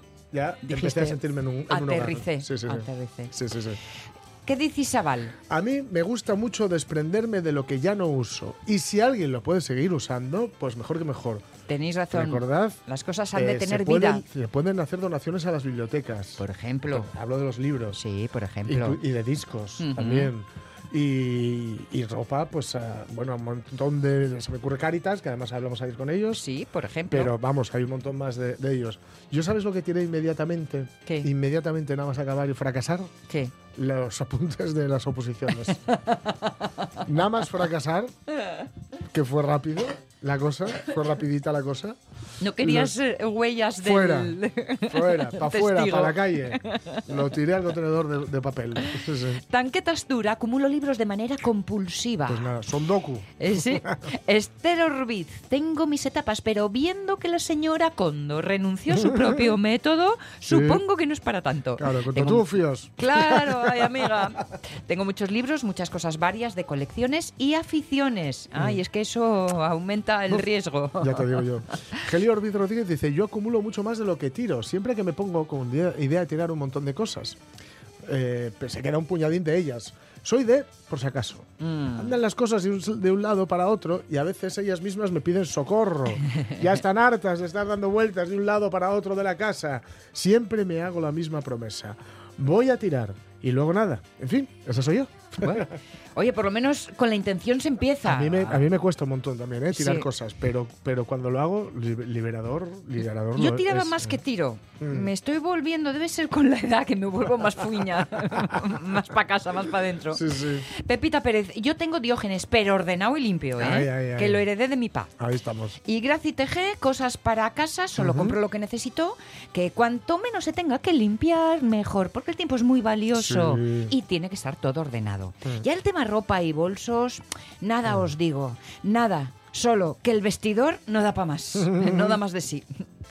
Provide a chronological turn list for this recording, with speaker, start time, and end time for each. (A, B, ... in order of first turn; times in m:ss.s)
0:00.3-0:03.8 A
0:00.6-0:03.3 B
0:04.4-0:05.3 B
0:05.5-0:11.4 A
0:11.7-0:14.2 B
0:12.1-0:12.8 A
0:13.3-0:18.0 A
0:16.4-0:17.1 B
0:17.9-0:19.0 B
0:18.6-0:26.5 A
0:19.8-0:20.3 B
0:26.3-0:27.3 B
0:27.1-0:33.1 A
0:33.7-0:35.8 A
0:35.9-0:37.0 B
0:37.0-0:38.1 A
0:39.1-0:42.0 A
0:42.4-0:47.0 B
0:42.6-0:42.9 A
0:43.8-0:49.4 A
0:49.5-0:52.5 B
0:52.3-0:54.0 A
0:53.4-1:12.0 B
0:58.9-0:59.5 A
1:00.4-1:00.8 A
1:01.8-1:04.2 A
1:11.0-1:17.4 A
1:18.0-1:35.7 A
1:21.6-1:22.2 B
1:35.4-1:38.7 B
1:38.0-1:44.2 A
1:39.7-1:40.1 B
1:43.4-1:55.1 B
1:44.8-1:45.1 A
1:50.1-1:50.7 A
1:53.6-1:54.4 A
1:55.2-1:55.8 A
1:55.8-2:12.8 B
1:58.0-1:58.4 A
2:03.1-2:03.9 A
2:11.6-2:12.2 A